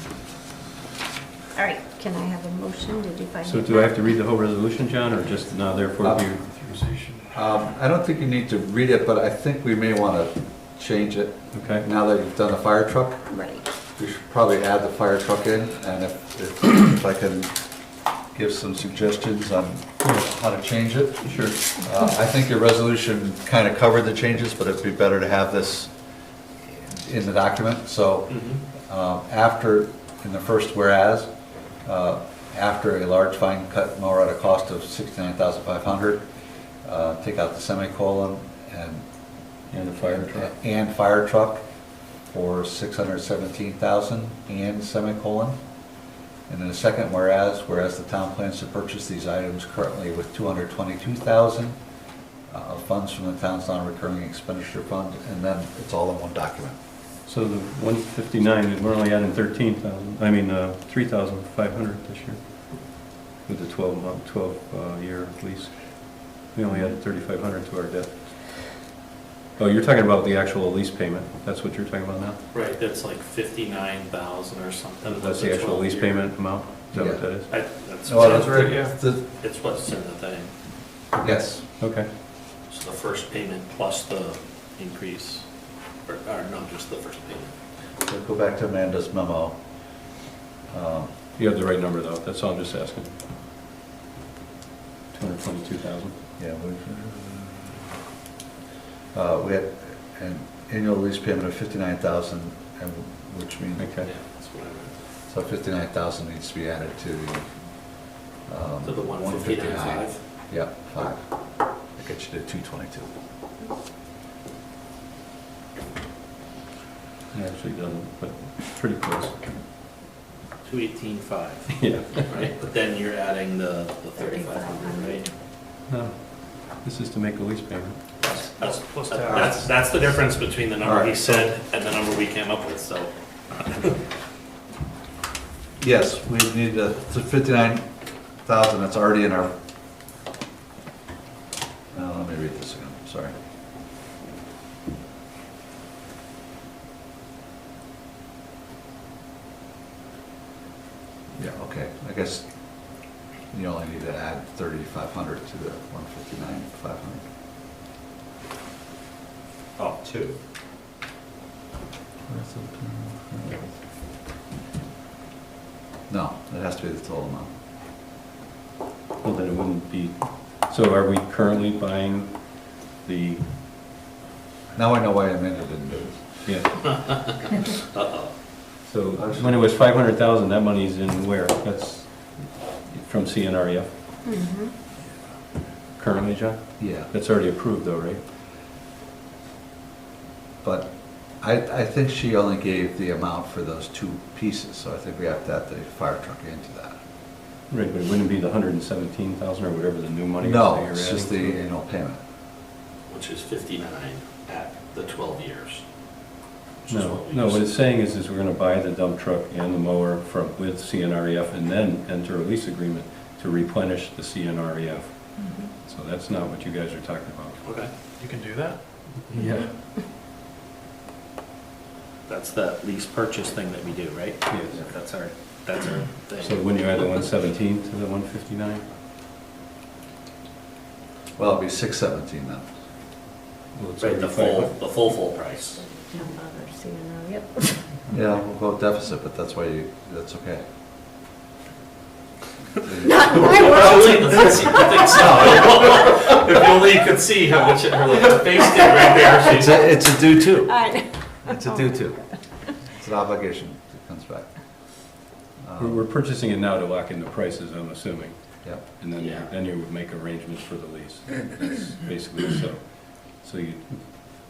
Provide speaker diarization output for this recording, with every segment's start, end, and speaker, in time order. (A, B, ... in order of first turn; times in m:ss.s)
0:01.6-0:04.1 A
0:03.4-0:06.4 B
0:06.0-0:06.3 C
0:06.4-0:07.3 D
0:07.3-0:13.2 C
0:11.5-0:11.9 B
0:13.3-0:13.7 A
0:13.9-0:17.6 C
0:18.3-0:25.9 C
0:21.2-0:21.6 B
0:26.9-0:31.3 C
0:28.3-0:28.6 E
0:31.8-0:36.3 C
0:36.8-0:39.0 C
0:39.7-0:40.5 B
0:40.0-0:41.6 C
0:42.3-0:45.6 C
0:46.5-0:51.8 C
0:52.5-0:56.8 C
0:57.3-1:08.9 B
1:09.6-1:12.4 B
1:12.5-1:16.4 E
1:15.0-1:17.5 B
1:16.9-1:17.5 C
1:17.5-1:20.5 E
1:18.1-1:19.2 C
1:18.2-1:18.9 D
1:21.2-1:21.8 C
1:21.3-1:22.1 B
1:22.7-1:27.6 E
1:28.0-1:29.6 C
1:30.7-1:31.1 C
1:31.4-1:33.2 B
1:35.1-1:36.2 B
1:36.4-1:37.9 C
1:39.1-1:43.9 C
1:43.8-1:44.1 B
1:44.0-1:45.0 E
1:45.3-1:47.5 C
1:48.4-1:53.1 C
1:48.8-1:50.2 E
1:57.3-1:59.5 B
2:00.6-2:05.3 E
2:01.7-2:02.3 B
2:04.2-2:05.3 A
2:05.9-2:08.0 B
2:08.2-2:14.0 E
2:08.3-2:09.6 D
2:09.3-2:09.5 C
2:10.8-2:11.2 C
2:15.8-2:17.9 C
2:18.4-2:19.6 C
2:21.9-2:23.3 C
2:31.4-2:37.2 C
2:39.8-2:40.4 C
2:42.3-2:43.7 C
2:46.1-2:47.5 C
2:49.2-2:53.5 B
2:54.7-2:56.2 C
2:56.4-2:56.9 B
2:56.9-2:58.3 E
2:58.8-3:03.9 B
2:59.2-2:59.5 C
3:04.2-3:04.7 A
3:06.0-3:08.2 B
3:06.8-3:07.1 C
3:10.6-3:17.0 C
3:17.7-3:21.6 B
3:20.4-3:22.2 C
3:23.1-3:25.8 E
3:26.8-3:27.7 E
3:26.9-3:37.6 B
3:35.4-3:35.7 A
3:37.6-3:37.9 E
3:38.2-3:38.8 D
3:39.3-3:39.7 B
3:42.3-3:47.1 E
3:44.5-3:44.8 B
3:46.4-3:48.8 B
3:51.4-3:52.7 C
3:53.8-3:54.8 B
3:54.0-3:55.8 E
3:55.8-3:57.8 A
3:58.1-4:00.6 C
4:02.8-4:04.1 C
4:03.0-4:04.7 A
4:03.3-4:09.9 E
4:05.1-4:05.6 C
4:09.5-4:10.9 C
4:10.6-4:12.0 A
4:11.4-4:12.2 C
4:12.8-4:14.5 C
4:15.6-4:16.1 C
4:15.8-4:24.0 B
4:19.2-4:19.5 E